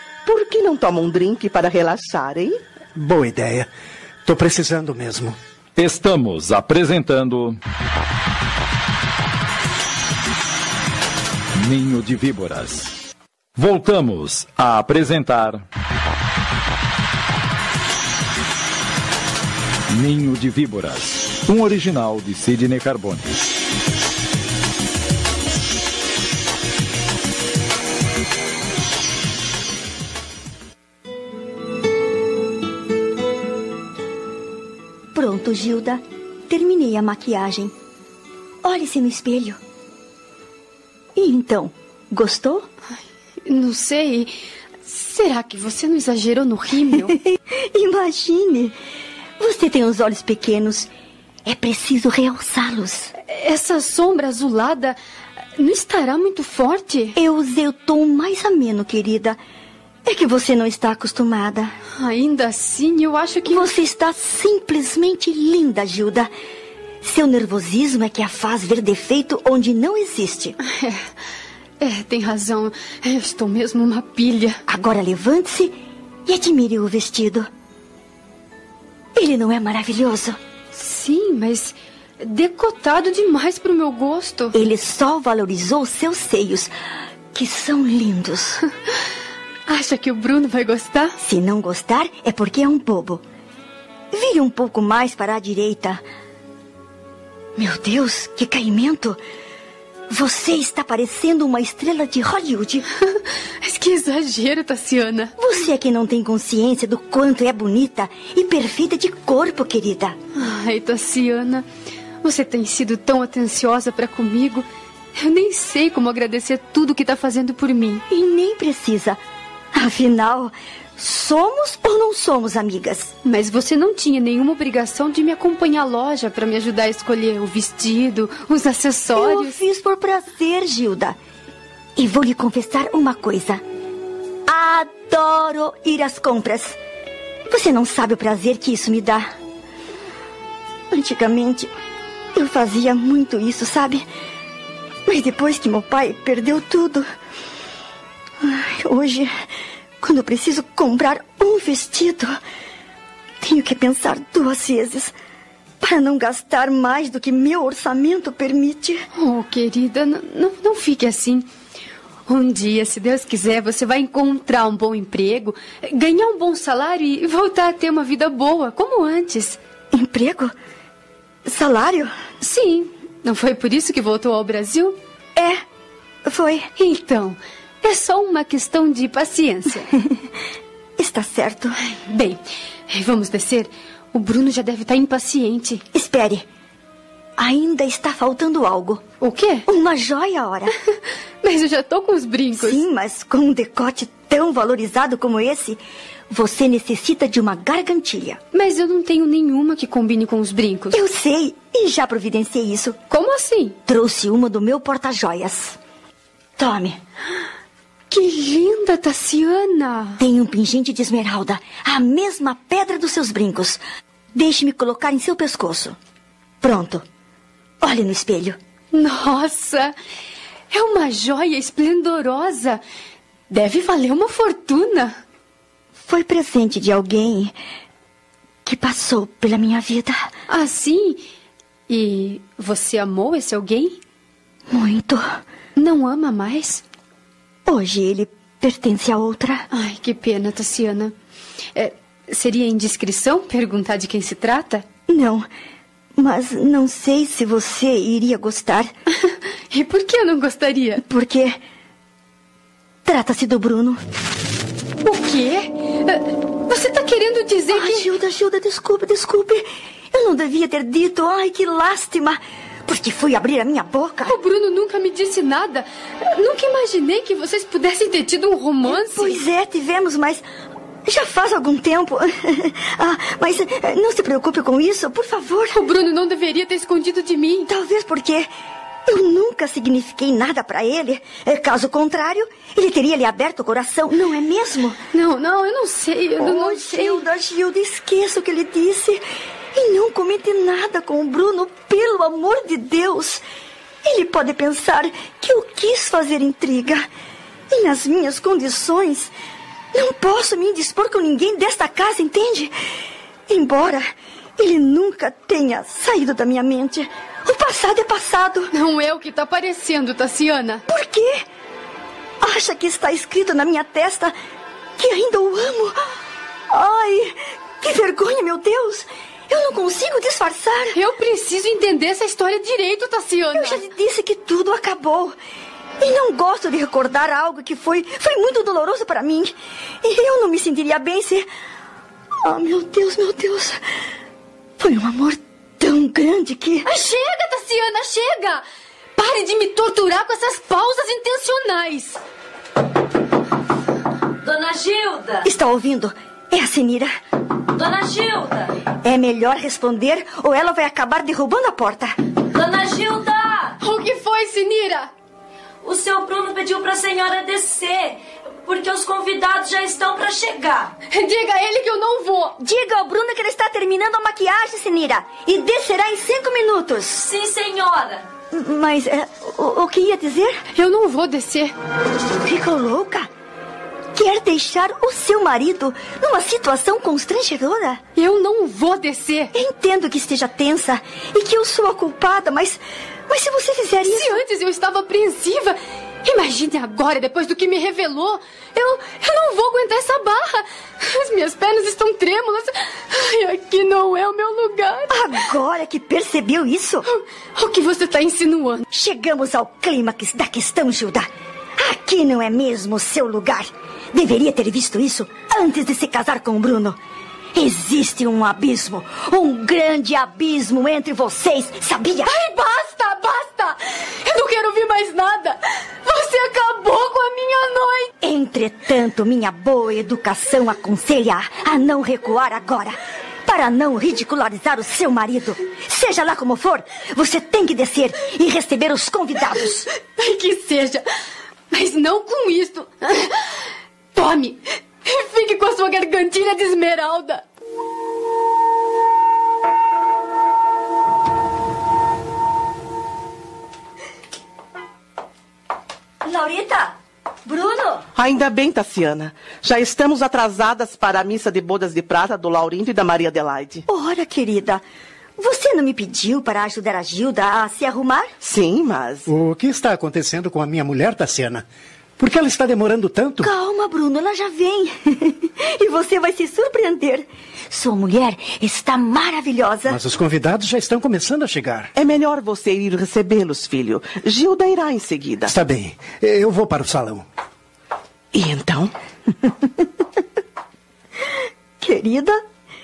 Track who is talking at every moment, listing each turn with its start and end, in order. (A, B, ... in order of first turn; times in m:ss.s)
0:00.2-0:02.6 A
0:02.9-0:03.7 B
0:04.2-0:05.4 B
0:05.8-0:07.6 C
0:11.6-0:12.9 C
0:13.6-0:15.6 C
0:19.9-0:23.4 C
0:35.1-0:37.7 D
0:38.6-0:39.6 D
0:41.2-0:42.7 D
0:43.4-0:44.3 E
0:44.8-0:47.1 E
0:47.1-0:48.7 D
0:49.4-0:50.9 D
0:51.4-0:53.1 D
0:53.2-0:55.0 E
0:55.6-0:57.1 E
0:57.2-0:59.4 D
1:00.0-1:01.7 D
1:02.0-1:03.7 E
1:03.4-1:06.3 D
1:07.0-1:10.6 D
1:10.7-1:11.0 E
1:11.8-1:14.6 E
1:14.7-1:15.7 D
1:16.3-1:17.5 D
1:19.2-1:20.4 D
1:20.7-1:24.6 E
1:24.5-1:26.7 D
1:27.3-1:28.6 D
1:29.7-1:31.1 E
1:31.2-1:33.2 D
1:34.1-1:36.0 D
1:37.6-1:39.2 D
1:40.1-1:42.8 D
1:43.6-1:45.3 E
1:45.4-1:50.2 D
1:50.3-1:51.6 E
1:52.2-1:58.0 E
1:58.1-1:59.2 D
1:59.7-2:03.1 D
2:03.2-2:09.5 E
2:09.1-2:11.2 D
2:12.0-2:13.6 D
2:14.5-2:16.8 D
2:17.5-2:19.3 D
2:20.9-2:21.7 D
2:22.3-2:24.0 D
2:25.0-2:27.0 D
2:28.4-2:29.3 D
2:30.0-2:32.3 D
2:33.4-2:35.1 D
2:35.8-2:39.0 D
2:39.1-2:41.5 E
2:42.3-2:49.6 E
2:49.9-2:50.5 D
2:51.4-2:52.1 D
2:52.4-2:55.0 E
2:56.2-2:56.7 D
2:56.8-2:59.9 E
3:01.0-3:01.8 D
3:01.9-3:05.8 E
3:05.9-3:06.4 D
3:07.4-3:09.0 D
3:09.2-3:09.6 E
3:09.6-3:10.7 D
3:11.4-3:12.8 E
3:12.5-3:18.4 D
3:18.5-3:21.0 E
3:20.9-3:23.0 D
3:23.1-3:23.8 E
3:23.8-3:25.8 D
3:26.6-3:27.0 D
3:28.1-3:30.2 E
3:30.2-3:33.8 D
3:34.3-3:36.0 D
3:36.6-3:37.0 D
3:37.8-3:38.6 D
3:38.9-3:39.9 E
3:40.7-3:42.8 E
3:43.5-3:45.2 E
3:46.0-3:47.5 D
3:48.6-3:50.3 D
3:50.5-3:51.2 E
3:51.9-3:54.0 E
3:54.7-3:55.4 D
3:55.8-3:56.8 E
3:57.6-3:59.7 D
3:59.7-4:01.1 E
4:01.7-4:04.8 E
4:05.1-4:05.5 D
4:06.2-4:08.9 D
4:09.7-4:11.0 E
4:11.0-4:11.6 D
4:13.0-4:14.0 D
4:15.0-4:18.1 E
4:17.7-4:24.4 D
4:24.3-4:29.4 E
4:28.8-4:30.4 D
4:31.0-4:35.8 D
4:35.7-4:37.7 E
4:37.7-4:38.5 D
4:39.1-4:45.0 D
4:45.1-4:47.2 E
4:46.4-4:49.2 D
4:49.7-4:53.4 D
4:54.0-4:57.0 D
4:57.7-4:59.3 D
4:59.9-5:02.7 D
5:03.5-5:08.7 D
5:08.7-5:10.8 E
5:10.9-5:11.4 D
5:12.4-5:14.3 D
5:15.0-5:15.9 D
5:16.7-5:21.0 D
5:20.9-5:23.8 E
5:23.5-5:25.4 D
5:26.0-5:31.5 D
5:32.4-5:33.8 D
5:34.8-5:36.9 D
5:36.9-5:38.6 E
5:39.2-5:42.2 E
5:44.4-5:45.4 F
5:45.4-5:47.1 D
5:47.7-5:48.7 F
5:49.0-5:52.2 D
5:52.5-5:53.8 F
5:53.8-5:55.1 E
5:55.8-6:00.9 F
6:01.1-6:02.5 E
6:02.6-6:07.3 D
6:07.2-6:08.2 F
6:08.5-6:10.6 D
6:10.7-6:11.7 E
6:12.4-6:13.3 D
6:14.1-6:18.0 D
6:18.2-6:19.5 E
6:19.5-6:24.4 D
6:24.1-6:35.1 E
6:35.1-6:37.0 D
6:37.1-6:38.8 E
6:38.9-6:47.0 D
6:47.5-6:52.3 D
6:52.2-6:58.1 E
6:58.2-7:09.9 D
7:10.2-7:11.0 E
7:11.7-7:13.5 E
7:14.1-7:17.4 E
7:26.2-7:26.9 D
7:27.4-7:28.0 D
7:28.1-7:33.8 A
7:33.9-7:34.8 D
7:35.4-7:38.3 D
7:38.4-7:39.3 A
7:39.3-7:41.6 B
7:42.2-7:43.5 B
7:43.4-7:50.0 D
7:49.9-7:51.9 B
7:51.9-7:55.5 A
7:55.5-7:57.2 B
7:58.3-7:58.9 A
8:01.8-8:02.4 D